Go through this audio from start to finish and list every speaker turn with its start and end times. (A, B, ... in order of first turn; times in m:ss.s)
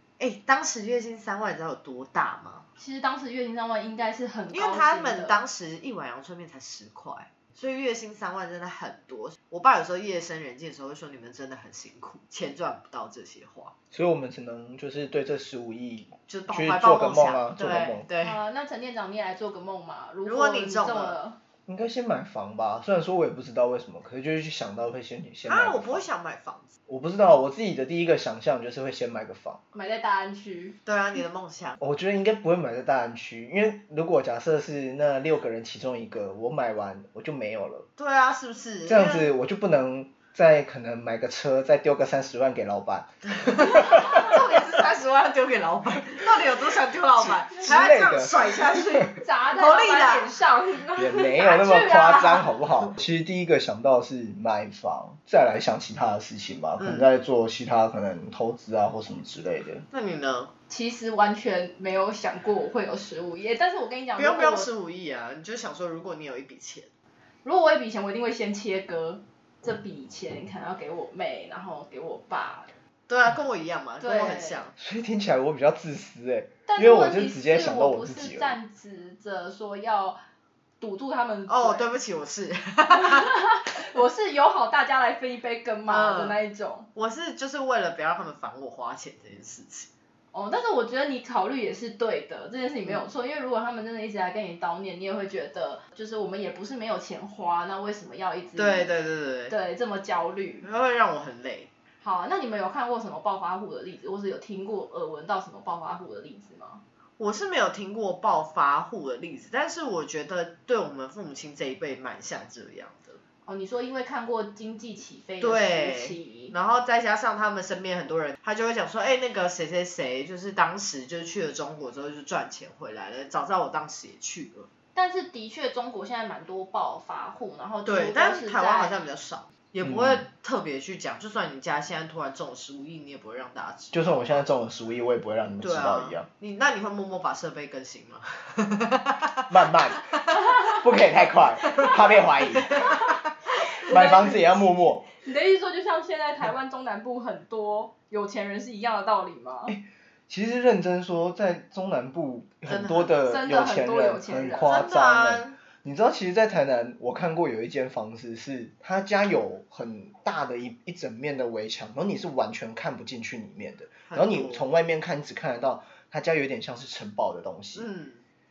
0:00.2-0:02.6 A
0:02.8-0:05.4 B
0:04.5-0:13.7 A
0:13.9-0:18.1 C
0:16.3-0:18.4 A
0:18.2-0:21.4 B
0:20.2-0:21.2 A
0:21.7-0:26.0 C
0:25.4-0:26.7 A
0:26.9-0:29.6 C
0:29.7-0:30.8 B
0:30.8-0:31.8 A
0:31.8-0:37.9 C
0:38.0-0:39.3 A
0:38.8-0:44.4 C
0:43.2-0:50.4 A
0:47.5-0:49.1 C
0:49.2-0:52.5 B
0:51.0-0:59.8 C
0:56.8-0:57.1 A
0:59.9-1:00.5 A
1:00.7-1:04.7 B
1:04.2-1:06.9 A
1:07.4-1:12.7 B
1:13.1-1:14.7 A
1:14.0-1:14.6 B
1:14.8-1:18.6 C
1:16.7-1:20.2 B
1:20.8-1:21.9 B
1:21.5-1:23.3 A
1:22.9-1:26.9 B
1:25.9-1:26.4 A
1:26.9-1:29.9 A
1:30.3-1:38.9 B
1:38.6-1:39.5 A
1:39.5-1:40.7 B
1:40.6-1:41.7 A
1:42.0-1:46.8 B
1:47.2-1:53.2 A
1:53.4-1:56.5 B
1:55.4-2:04.7 A
2:04.9-2:08.9 B
2:07.8-2:14.4 A
2:09.8-2:10.2 C
2:13.9-2:16.3 C
2:15.6-2:19.8 A
2:19.5-2:20.0 C
2:20.6-2:22.8 C
2:21.6-2:23.1 A
2:22.7-2:29.8 B
2:23.8-2:25.1 C
2:29.7-2:47.9 C
2:32.7-2:33.1 A
2:33.2-2:34.8 B
2:34.6-2:35.6 A
2:44.1-2:44.6 A
2:47.8-2:48.2 A